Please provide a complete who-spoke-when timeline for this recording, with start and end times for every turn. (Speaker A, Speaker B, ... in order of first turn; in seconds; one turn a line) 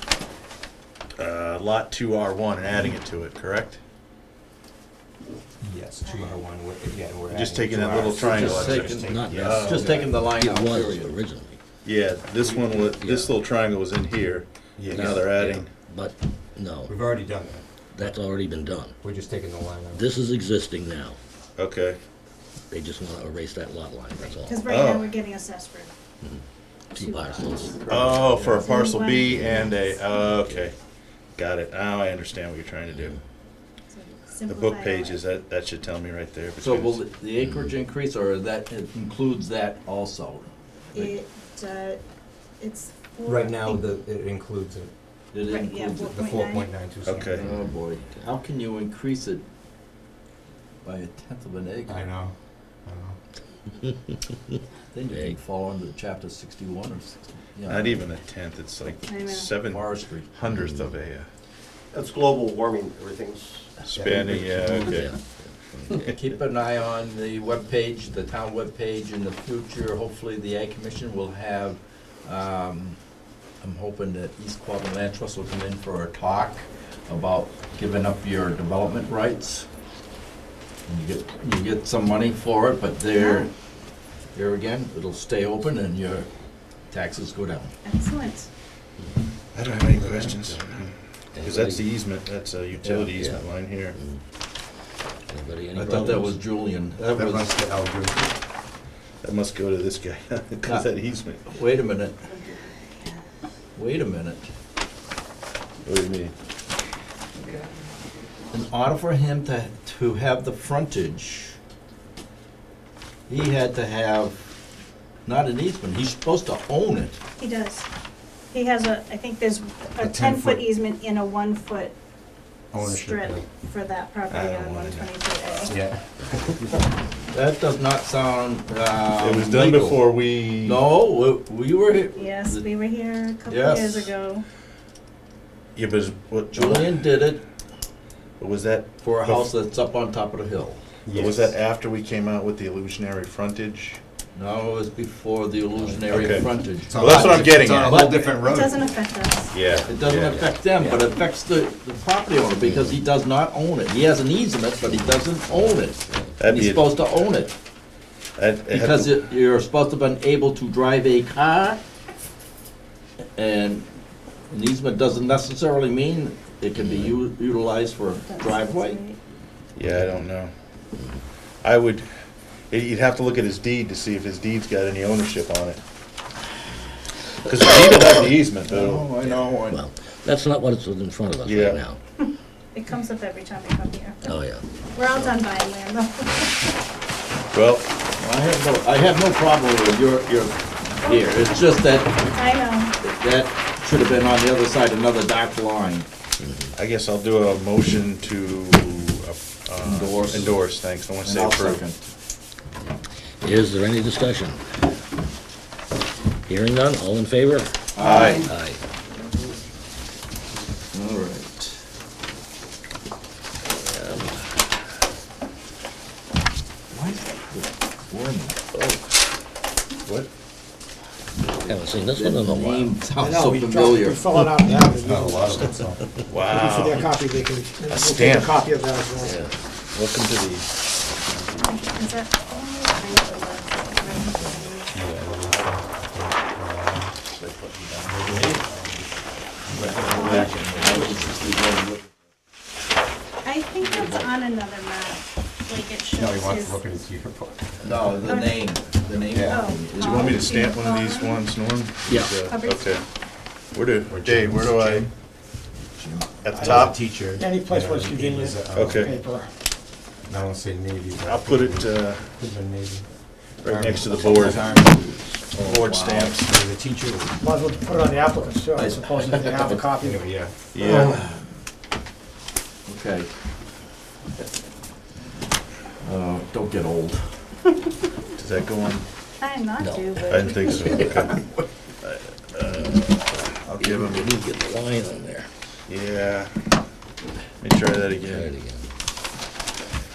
Speaker A: 1.2-3.8
Speaker B: 5.6-9.9
Speaker A: 7.3-10.1
Speaker C: 8.2-11.1
Speaker D: 8.3-11.6
Speaker A: 11.8-15.7
Speaker D: 12.5-13.4
Speaker B: 14.8-15.1
Speaker D: 14.9-17.0
Speaker B: 16.9-17.6
Speaker D: 17.9-18.9
Speaker B: 19.0-20.0
Speaker D: 19.9-21.2
Speaker A: 21.6-22.0
Speaker D: 22.7-24.7
Speaker E: 24.4-25.9
Speaker A: 24.7-25.2
Speaker E: 26.9-27.8
Speaker D: 26.9-28.2
Speaker C: 27.9-28.6
Speaker A: 27.9-30.8
Speaker E: 28.4-30.0
Speaker D: 29.3-29.7
Speaker D: 30.3-30.7
Speaker A: 31.4-33.2
Speaker D: 32.9-33.2
Speaker E: 33.9-35.2
Speaker A: 34.5-37.0
Speaker C: 36.6-41.1
Speaker D: 37.4-37.7
Speaker E: 41.0-42.0
Speaker E: 42.6-43.8
Speaker B: 43.2-44.9
Speaker C: 45.3-46.1
Speaker E: 45.5-46.7
Speaker B: 46.1-47.5
Speaker A: 47.0-47.5
Speaker C: 47.4-49.4
Speaker C: 50.8-52.1
Speaker B: 51.9-52.3
Speaker B: 52.9-53.2
Speaker D: 53.7-55.4
Speaker C: 54.9-58.0
Speaker A: 57.7-61.3
Speaker E: 59.1-59.6
Speaker C: 59.7-60.3
Speaker D: 60.4-61.0
Speaker F: 61.9-64.4
Speaker A: 63.8-65.1
Speaker B: 64.0-64.7
Speaker D: 64.5-66.1
Speaker C: 66.0-73.0
Speaker C: 73.6-79.7
Speaker C: 80.9-83.5
Speaker E: 83.1-83.5
Speaker C: 84.3-86.3
Speaker C: 86.9-87.7
Speaker E: 87.8-88.5
Speaker A: 89.5-94.0
Speaker B: 90.0-90.3
Speaker D: 90.3-90.7
Speaker D: 91.3-91.9
Speaker C: 92.8-93.1
Speaker D: 93.1-94.2
Speaker D: 95.3-96.4
Speaker C: 95.8-97.6
Speaker B: 97.1-98.3
Speaker A: 99.2-101.6
Speaker C: 101.5-102.2
Speaker C: 103.8-104.5
Speaker A: 105.8-106.3
Speaker C: 108.5-111.6
Speaker C: 113.3-114.4
Speaker C: 115.2-117.2
Speaker E: 117.4-117.9
Speaker E: 118.5-121.9
Speaker B: 120.0-120.6
Speaker B: 122.7-123.5
Speaker E: 122.8-125.8
Speaker A: 124.3-125.1
Speaker B: 125.7-126.8
Speaker C: 127.3-130.1
Speaker A: 129.2-130.8
Speaker C: 130.6-132.7
Speaker E: 132.2-134.4
Speaker C: 133.5-134.1
Speaker A: 135.8-137.0
Speaker C: 136.5-137.4
Speaker A: 138.4-139.5
Speaker C: 139.0-140.8
Speaker B: 141.1-141.5
Speaker A: 141.1-144.0
Speaker C: 144.3-148.3
Speaker D: 145.7-146.5
Speaker A: 146.1-148.2
Speaker B: 146.9-148.8
Speaker E: 148.0-149.6
Speaker A: 149.5-150.3
Speaker D: 149.6-151.1
Speaker C: 149.9-157.5
Speaker D: 152.6-153.0
Speaker D: 154.8-156.4
Speaker A: 156.4-156.9
Speaker A: 158.4-159.2
Speaker C: 158.7-161.8
Speaker C: 163.4-163.9
Speaker C: 164.5-169.0
Speaker D: 166.8-167.2
Speaker E: 168.3-169.2
Speaker A: 169.8-170.5
Speaker D: 171.0-171.2
Speaker A: 171.6-172.1
Speaker A: 172.7-175.8
Speaker A: 177.4-179.3
Speaker C: 178.7-179.8
Speaker D: 179.6-182.0
Speaker A: 181.4-181.8
Speaker E: 182.7-184.3
Speaker D: 184.2-184.7
Speaker E: 184.9-186.7
Speaker A: 187.5-187.9
Speaker C: 188.2-192.2
Speaker E: 191.0-191.6
Speaker E: 192.1-192.9
Speaker C: 193.0-196.1
Speaker D: 196.4-196.7
Speaker A: 196.8-201.8
Speaker C: 199.8-200.7
Speaker C: 201.2-202.0
Speaker D: 203.4-204.6
Speaker D: 206.5-208.8
Speaker C: 207.9-208.5
Speaker C: 210.9-211.8
Speaker D: 213.8-214.5
Speaker C: 216.9-219.0
Speaker A: 220.0-220.3
Speaker D: 221.7-223.1
Speaker C: 222.1-224.4
Speaker G: 223.2-225.5
Speaker B: 224.9-226.0
Speaker A: 226.3-227.1
Speaker G: 226.5-229.4
Speaker A: 227.9-228.6
Speaker D: 229.2-229.6
Speaker A: 229.9-230.7
Speaker A: 231.3-231.6
Speaker E: 231.6-235.2
Speaker B: 234.9-237.2
Speaker C: 237.4-238.6
Speaker B: 238.1-238.8
Speaker C: 239.7-242.0
Speaker B: 239.7-240.2
Speaker E: 240.1-241.1
Speaker A: 240.1-240.6
Speaker F: 240.9-241.7
Speaker E: 243.4-246.8
Speaker C: 243.8-244.3
Speaker B: 246.2-248.1
Speaker C: 247.8-250.5
Speaker E: 248.2-248.7
Speaker B: 249.3-249.6
Speaker E: 249.4-251.5
Speaker A: 250.0-253.1
Speaker C: 252.1-252.3
Speaker E: 252.4-253.0
Speaker A: 253.7-255.1
Speaker B: 254.1-255.1
Speaker C: 256.0-256.4
Speaker A: 256.4-257.0
Speaker B: 256.6-259.1
Speaker G: 257.4-259.5
Speaker A: 258.7-259.1
Speaker B: 260.3-265.3
Speaker A: 261.2-262.2
Speaker A: 263.6-264.7
Speaker C: 264.1-266.4
Speaker A: 265.5-266.6
Speaker B: 266.5-267.4
Speaker G: 267.4-270.2
Speaker C: 268.8-269.9
Speaker B: 270.0-270.6
Speaker A: 270.7-271.2
Speaker C: 270.8-271.4
Speaker C: 272.9-273.3
Speaker C: 276.0-277.4
Speaker A: 278.4-279.1
Speaker E: 279.4-281.3
Speaker D: 279.8-281.3
Speaker A: 280.3-281.4
Speaker A: 282.0-284.4
Speaker D: 282.6-285.5
Speaker A: 285.9-286.5
Speaker A: 287.6-288.5
Speaker D: 288.2-288.9